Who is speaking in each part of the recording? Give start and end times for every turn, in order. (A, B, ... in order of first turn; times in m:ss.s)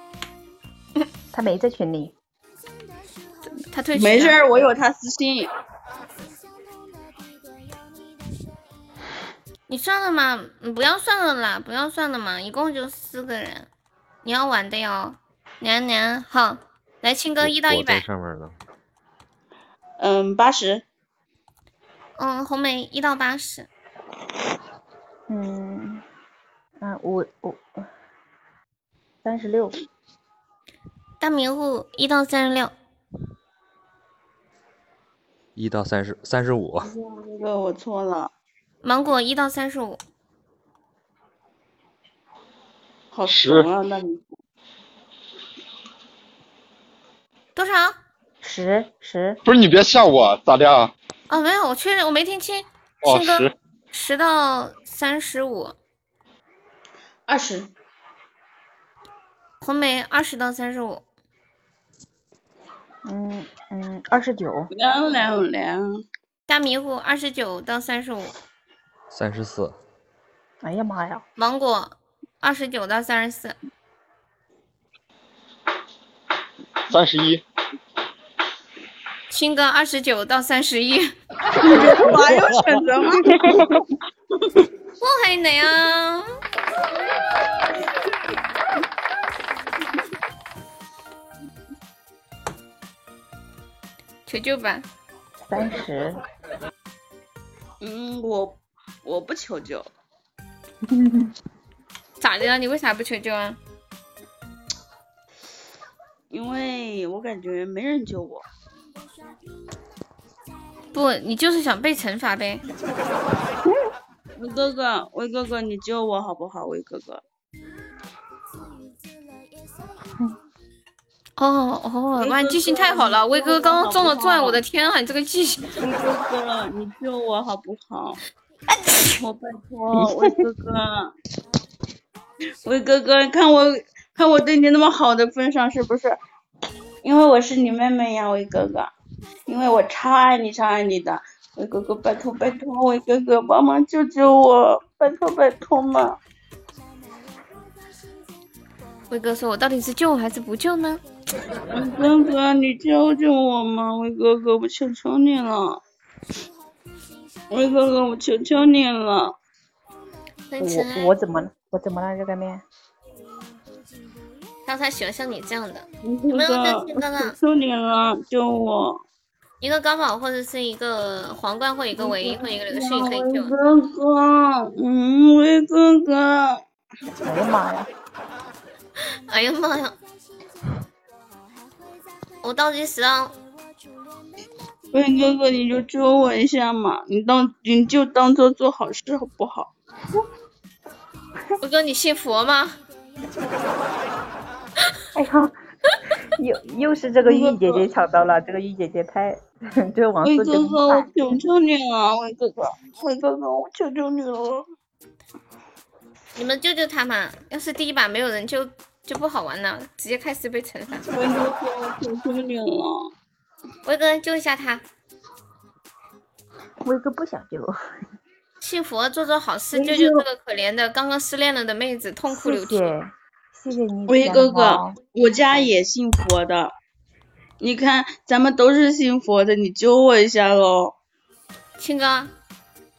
0:01.3-0:02.1 A
0:03.7-0:04.4 B
0:04.0-0:05.5 C
0:09.7-0:13.7 B
0:14.2-0:18.0 B
0:17.4-0:18.6 D
0:20.0-0:20.8 C
0:22.2-0:23.7 B
0:25.3-0:26.0 A
0:26.8-0:27.7 A
0:29.2-0:29.8 A
0:31.2-0:32.7 B
0:35.6-0:36.9 D
0:36.8-0:38.3 C
0:38.8-0:40.0 B
0:43.1-0:44.3 C
0:43.3-0:43.7 E
0:47.6-0:48.0 B
0:48.4-0:49.4 A
0:49.4-0:50.9 E
0:51.3-0:55.8 B
0:53.0-0:53.6 E
0:57.3-0:57.7 C
0:59.6-1:01.0 B
1:03.0-1:04.7 A
1:04.7-1:06.0 C
1:06.5-1:08.3 B
1:09.1-1:09.8 D
1:10.6-1:11.2 A
1:11.4-1:13.6 B
1:16.9-1:17.4 E
1:19.3-1:21.1 B
1:21.6-1:23.4 C
1:25.0-1:26.2 B
1:34.3-1:34.9 B
1:35.4-1:36.2 A
1:37.8-1:39.9 C
1:40.9-1:41.3 A
1:42.2-1:43.6 B
1:46.3-1:48.5 C
1:50.9-1:52.6 B
1:54.4-1:57.2 C
2:01.4-2:05.6 B
2:02.2-2:04.6 C
2:05.8-2:08.2 C
2:09.1-2:11.1 C
2:12.6-2:16.2 C
2:17.0-2:18.9 C
2:19.5-2:26.2 C
2:29.1-2:31.0 B
2:31.7-2:35.8 C
2:37.5-2:39.4 C
2:40.5-2:41.1 B
2:40.6-2:42.6 A
2:44.7-2:47.4 B
2:46.0-2:49.0 C
2:49.6-2:53.5 B
2:52.0-2:56.6 C
2:57.2-2:57.9 A
2:59.3-3:00.0 B
3:02.4-3:03.3 B
3:04.9-3:09.7 C
3:11.6-3:12.8 B
3:15.1-3:15.5 A
3:16.4-3:21.1 A
3:17.2-3:17.9 C
3:20.2-3:24.7 C
3:26.4-3:31.1 B
3:31.1-3:33.1 C
3:33.8-3:34.8 B
3:36.8-3:37.8 A
3:38.6-3:42.8 B
3:39.7-3:40.3 C
3:42.3-3:45.0 A
3:44.1-3:46.7 C
3:47.6-3:51.0 C
3:51.8-3:52.3 B